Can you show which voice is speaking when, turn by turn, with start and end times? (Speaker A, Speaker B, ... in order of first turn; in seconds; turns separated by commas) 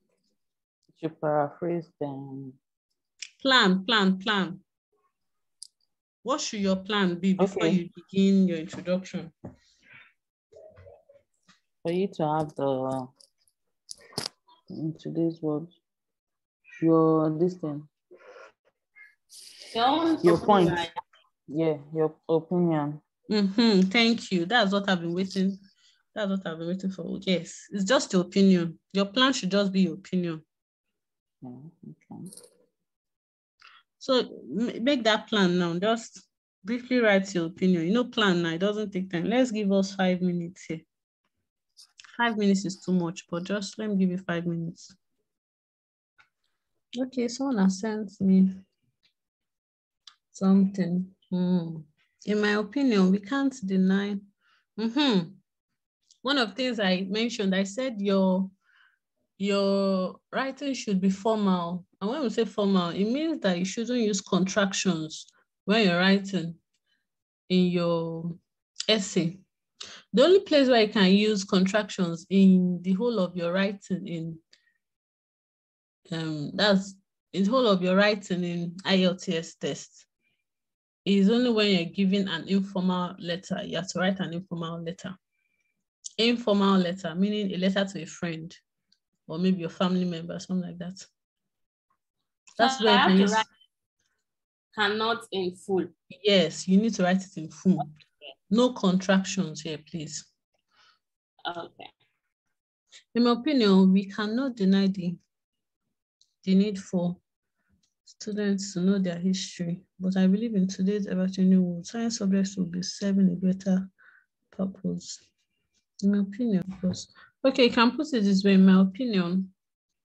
Speaker A: 1.0-2.6, Speaker B: 3.4-4.6, Speaker B: 6.2-9.3, Speaker A: 7.4-7.8, Speaker A: 11.8-13.1, Speaker A: 14.7-15.7, Speaker A: 16.8-17.9, Speaker C: 19.7-20.9, Speaker A: 20.2-20.9, Speaker A: 21.5-23.0, Speaker B: 23.3-25.6, Speaker B: 26.1-30.4, Speaker A: 31.4-32.3, Speaker B: 34.0-40.8, Speaker B: 42.1-44.9, Speaker B: 47.0-48.6, Speaker B: 50.3-54.2, Speaker B: 54.8-55.4, Speaker B: 56.2-58.5, Speaker B: 59.4-66.6, Speaker B: 67.5-69.4, Speaker B: 70.1-74.4, Speaker B: 76.1-80.0, Speaker B: 81.0-85.2, Speaker B: 86.2-88.6, Speaker B: 89.3-91.1, Speaker B: 92.6-93.5, Speaker C: 92.6-93.5, Speaker C: 94.7-95.9, Speaker B: 96.1-97.9, Speaker B: 98.5-100.3, Speaker C: 101.4-101.9, Speaker B: 103.1-105.2, Speaker B: 106.4-107.2, Speaker B: 108.0-113.9, Speaker B: 114.5-115.2, Speaker B: 116.0-119.5